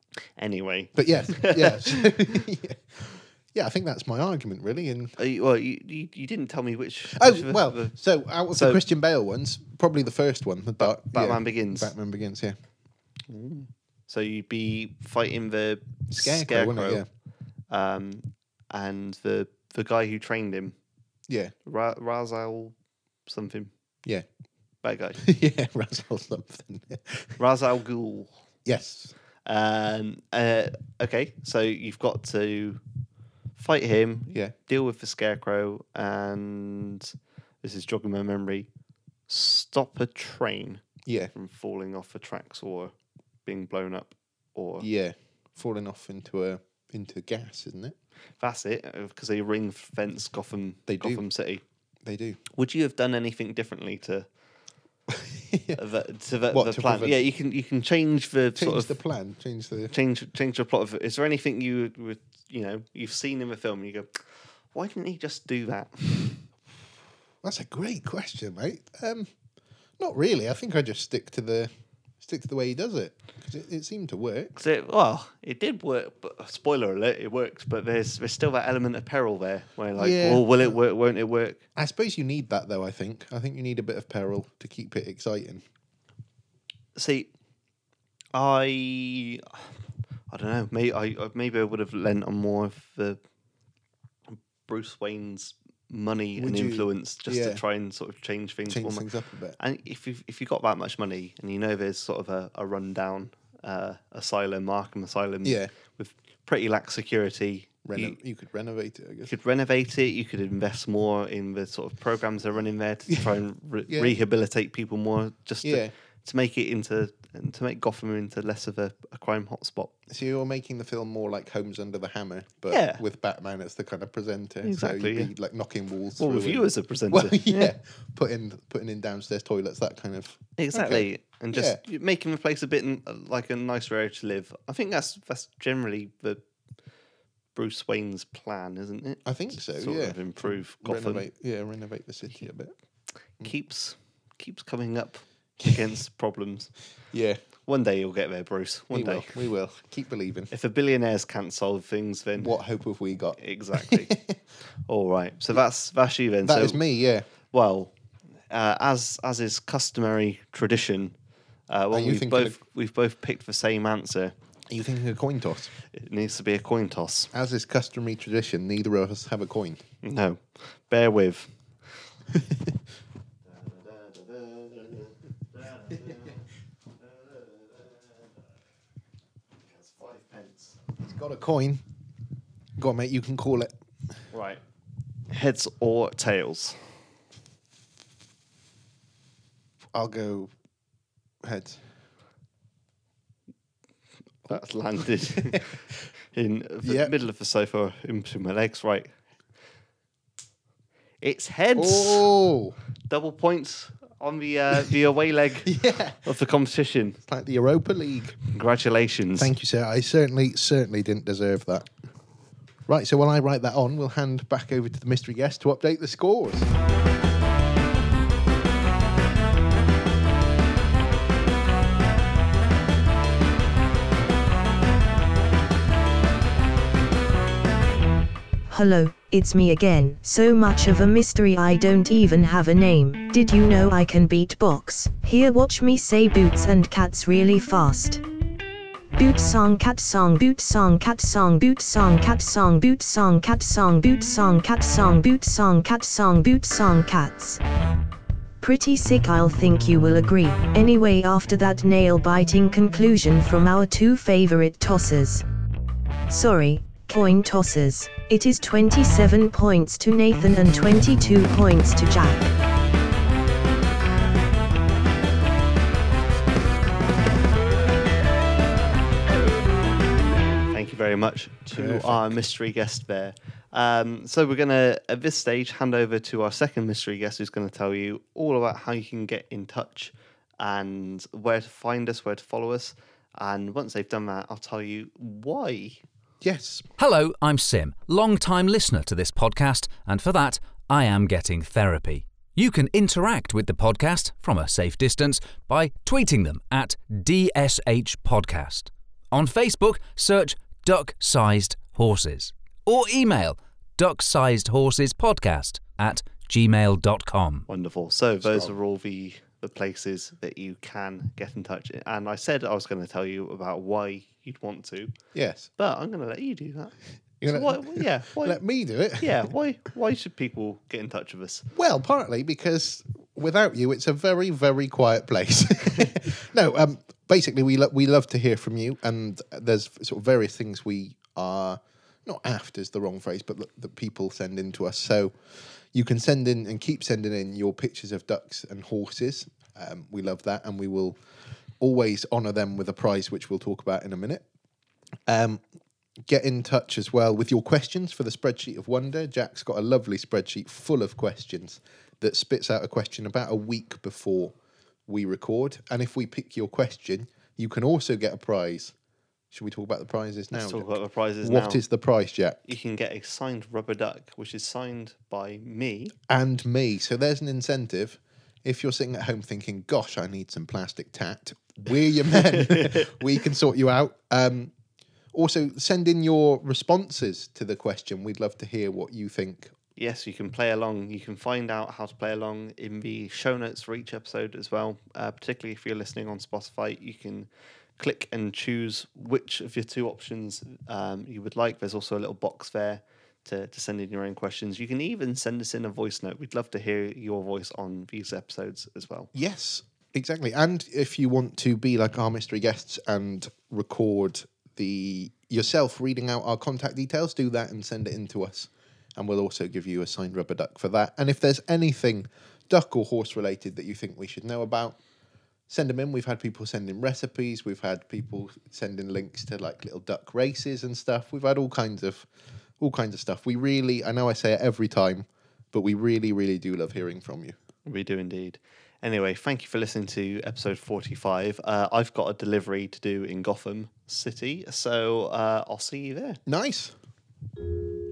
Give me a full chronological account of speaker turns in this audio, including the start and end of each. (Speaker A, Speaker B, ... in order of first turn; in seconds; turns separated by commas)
Speaker A: 0.4-2.5, Speaker B: 0.9-5.2, Speaker A: 5.2-8.0, Speaker B: 7.1-12.6, Speaker A: 8.5-8.8, Speaker A: 10.8-11.9, Speaker A: 13.3-17.0, Speaker B: 16.1-17.1, Speaker A: 17.7-20.8, Speaker B: 21.3-21.5, Speaker A: 21.6-22.8, Speaker A: 23.3-23.7, Speaker A: 24.8-25.2, Speaker B: 25.2-27.4, Speaker A: 27.4-28.3, Speaker B: 28.6-29.1, Speaker A: 29.4-32.8, Speaker A: 33.6-38.7, Speaker A: 39.3-40.8, Speaker B: 41.0-41.3, Speaker A: 41.3-42.9, Speaker A: 43.5-44.9, Speaker B: 44.8-48.0, Speaker A: 48.4-51.6, Speaker B: 50.9-51.2, Speaker B: 52.0-52.4, Speaker A: 52.5-54.3, Speaker B: 55.1-55.8, Speaker A: 55.8-58.9, Speaker B: 56.5-57.2, Speaker B: 58.6-59.9, Speaker A: 59.9-64.2, Speaker A: 64.7-66.4, Speaker B: 67.4-69.3, Speaker B: 70.0-74.5, Speaker A: 74.6-81.6, Speaker B: 80.0-80.8, Speaker B: 81.8-85.6, Speaker A: 87.0-87.3, Speaker A: 88.3-89.7, Speaker A: 90.3-93.2, Speaker A: 94.3-99.1, Speaker B: 96.4-97.6, Speaker B: 98.7-99.6, Speaker A: 99.6-108.2, Speaker B: 105.4-105.7, Speaker B: 107.8-109.3, Speaker A: 109.3-119.9, Speaker B: 113.9-114.1, Speaker B: 115.6-115.9, Speaker B: 120.1-131.8, Speaker A: 122.7-123.0, Speaker A: 124.6-125.3, Speaker A: 126.2-127.8, Speaker A: 130.6-136.4, Speaker A: 137.5-141.2, Speaker B: 139.3-142.7, Speaker A: 143.4-146.7, Speaker B: 147.1-147.4, Speaker A: 147.7-149.4, Speaker B: 148.9-150.5, Speaker A: 150.5-152.6, Speaker B: 152.4-154.4, Speaker A: 153.4-154.1, Speaker A: 154.9-156.8, Speaker B: 156.4-157.3, Speaker A: 157.4-157.9, Speaker A: 158.5-161.2, Speaker A: 161.7-164.3, Speaker B: 161.9-162.6, Speaker B: 164.7-165.7, Speaker A: 165.9-167.3, Speaker B: 167.3-169.8, Speaker A: 170.0-171.5, Speaker B: 172.3-172.7, Speaker A: 173.5-176.4, Speaker A: 177.0-178.3, Speaker A: 179.6-180.8, Speaker B: 181.0-181.8, Speaker B: 182.8-183.7, Speaker A: 184.3-184.6, Speaker A: 185.3-186.9, Speaker B: 189.9-190.5, Speaker B: 191.4-191.8, Speaker A: 194.5-199.1, Speaker B: 196.8-197.1, Speaker A: 201.2-202.3, Speaker B: 201.8-202.8, Speaker A: 203.1-207.2, Speaker B: 205.7-206.2, Speaker B: 207.2-208.4, Speaker A: 208.5-209.5, Speaker B: 209.4-211.9, Speaker B: 212.9-216.7, Speaker C: 228.7-238.2, Speaker C: 239.1-247.6, Speaker C: 248.6-255.4, Speaker C: 256.3-262.5, Speaker A: 270.7-286.0, Speaker B: 271.7-272.4, Speaker B: 286.4-286.9, Speaker D: 287.0-307.7, Speaker A: 307.7-315.1, Speaker B: 308.4-308.7, Speaker B: 315.3-315.7, Speaker A: 315.8-318.6, Speaker B: 317.4-319.4, Speaker A: 319.2-321.7, Speaker B: 321.7-341.2, Speaker B: 341.8-344.4, Speaker B: 345.3-345.6, Speaker B: 346.3-354.6, Speaker B: 355.1-358.9, Speaker B: 359.5-362.6, Speaker A: 360.5-361.8, Speaker A: 362.7-366.1, Speaker B: 366.3-374.7, Speaker A: 372.5-373.1, Speaker B: 375.3-379.7, Speaker A: 380.0-399.3, Speaker B: 399.3-415.0, Speaker B: 415.7-422.3, Speaker B: 422.8-427.6, Speaker A: 427.9-436.4, Speaker B: 436.5-436.9